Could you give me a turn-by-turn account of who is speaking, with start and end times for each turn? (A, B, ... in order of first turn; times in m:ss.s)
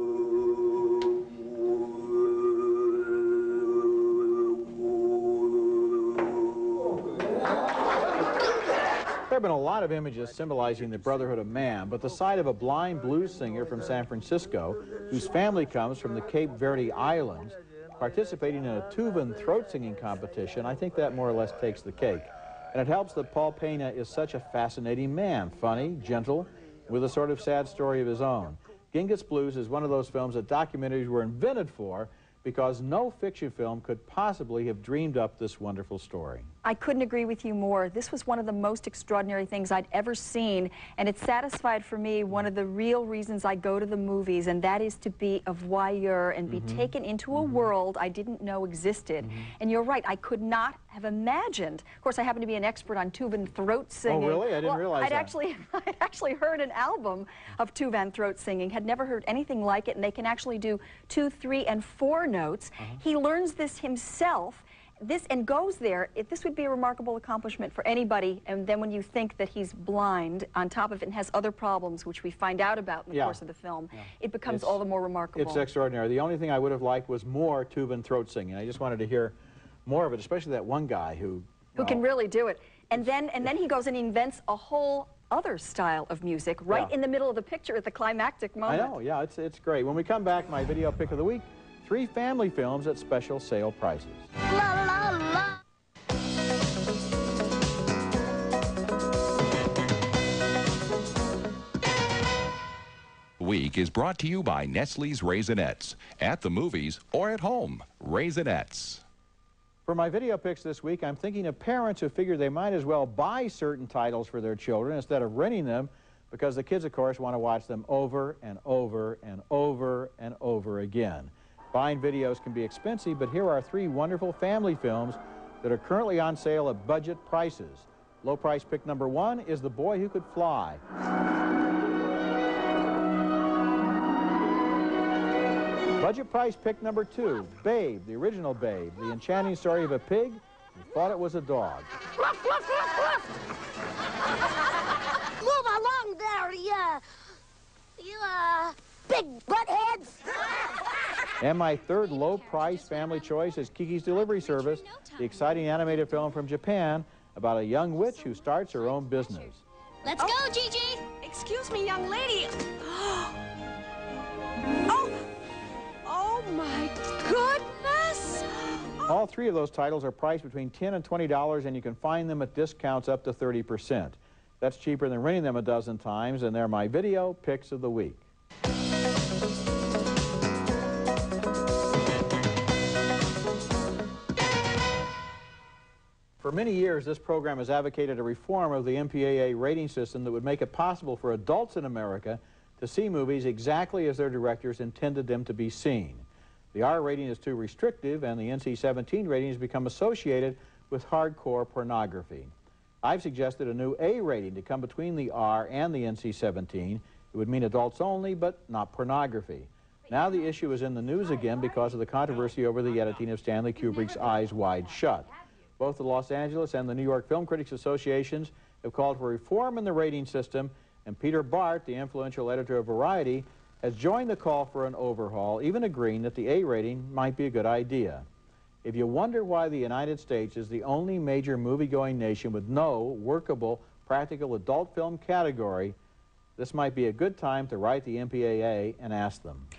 0:09.3-0:36.5 A
0:36.6-1:15.7 B
0:46.5-0:47.6 A
0:54.1-0:55.4 A
1:13.1-1:13.4 A
1:14.0-1:14.8 A
1:15.4-1:22.0 A
1:21.8-1:28.9 B
1:28.7-1:34.3 A
1:34.6-1:35.4 C
1:43.4-1:49.0 D
1:49.9-2:10.8 A
2:16.0-2:21.9 A
2:25.4-2:27.0 C
2:28.0-2:30.1 C
2:31.4-2:39.6 A
2:41.2-2:43.3 E
2:46.1-2:48.4 E
2:49.1-2:58.3 A
3:06.4-3:22.5 A
3:23.0-3:35.3 A
3:35.8-3:48.3 A
3:48.8-3:56.0 A
3:56.6-3:59.7 A